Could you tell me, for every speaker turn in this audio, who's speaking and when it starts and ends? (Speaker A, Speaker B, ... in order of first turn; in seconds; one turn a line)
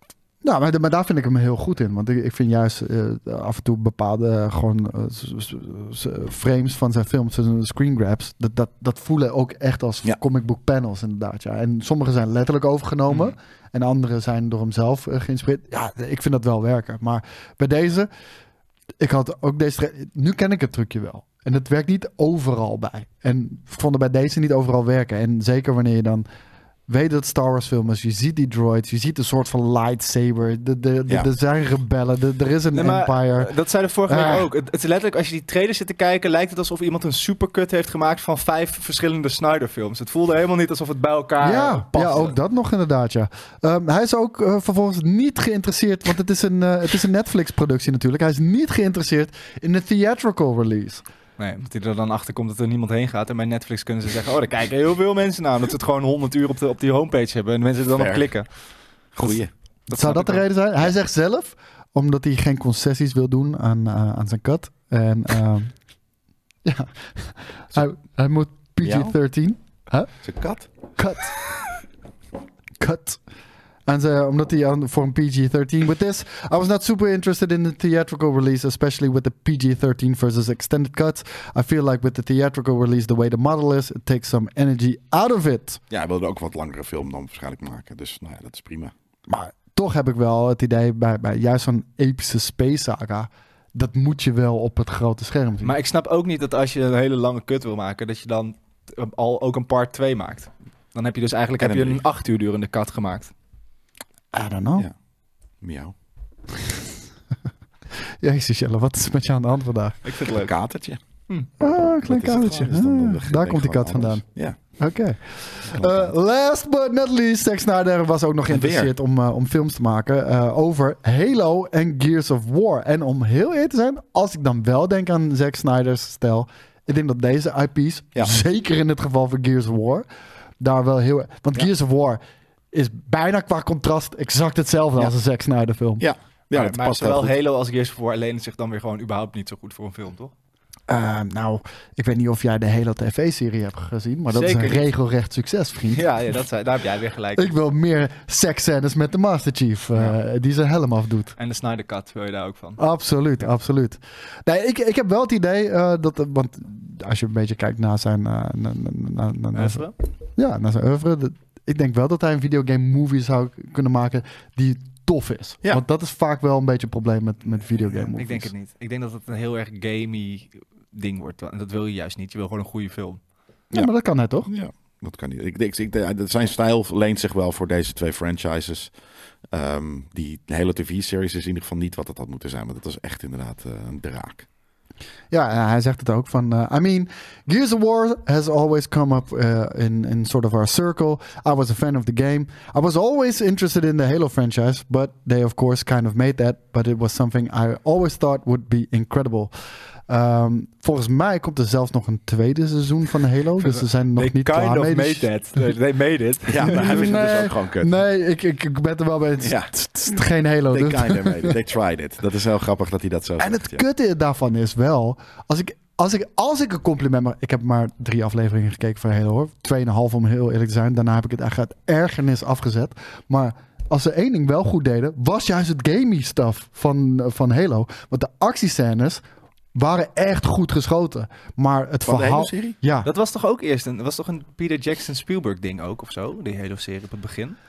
Speaker A: 0.4-18.1
Speaker B: 13.1-13.3
Speaker A: 19.0-26.2
Speaker A: 26.9-33.5
Speaker B: 32.7-42.4
Speaker A: 34.1-34.5
Speaker A: 41.4-51.0
Speaker B: 51.4-58.5
Speaker C: 57.9-58.3
Speaker C: 59.1-59.5
Speaker B: 59.9-60.5
Speaker A: 59.9-65.7
Speaker A: 66.6-70.1
Speaker C: 68.8-69.2
Speaker C: 70.2-70.7
Speaker A: 71.0-71.5
Speaker A: 72.8-73.2
Speaker A: 73.9-85.8
Speaker C: 85.9-88.9
Speaker A: 89.3-95.7
Speaker B: 95.6-103.3
Speaker C: 101.6-102.0
Speaker A: 104.3-104.8
Speaker C: 105.6-105.9
Speaker A: 108.2-110.0
Speaker B: 110.0-110.5
Speaker C: 110.4-111.0
Speaker A: 111.6-130.1
Speaker C: 111.6-114.6
Speaker C: 115.7-116.1
Speaker C: 118.5-118.9
Speaker A: 130.6-132.2
Speaker A: 132.7-136.0
Speaker C: 136.0-137.3
Speaker B: 136.5-140.3
Speaker A: 140.9-146.1
Speaker B: 144.3-144.9
Speaker B: 145.9-147.5
Speaker A: 147.4-151.3
Speaker B: 151.3-152.8
Speaker A: 152.8-159.8
Speaker B: 159.5-159.9
Speaker A: 160.4-168.5
Speaker B: 168.1-173.2
Speaker A: 173.7-174.5
Speaker C: 174.4-178.9
Speaker C: 179.5-184.4
Speaker A: 185.3-199.5
Speaker A: 200.1-205.3
Speaker B: 203.6-207.1
Speaker C: 206.5-208.0
Speaker A: 206.6-211.6
Speaker C: 209.4-209.7
Speaker C: 210.7-213.8
Speaker A: 213.4-229.2
Speaker A: 229.7-233.1
Speaker C: 232.1-232.8
Speaker B: 233.0-237.6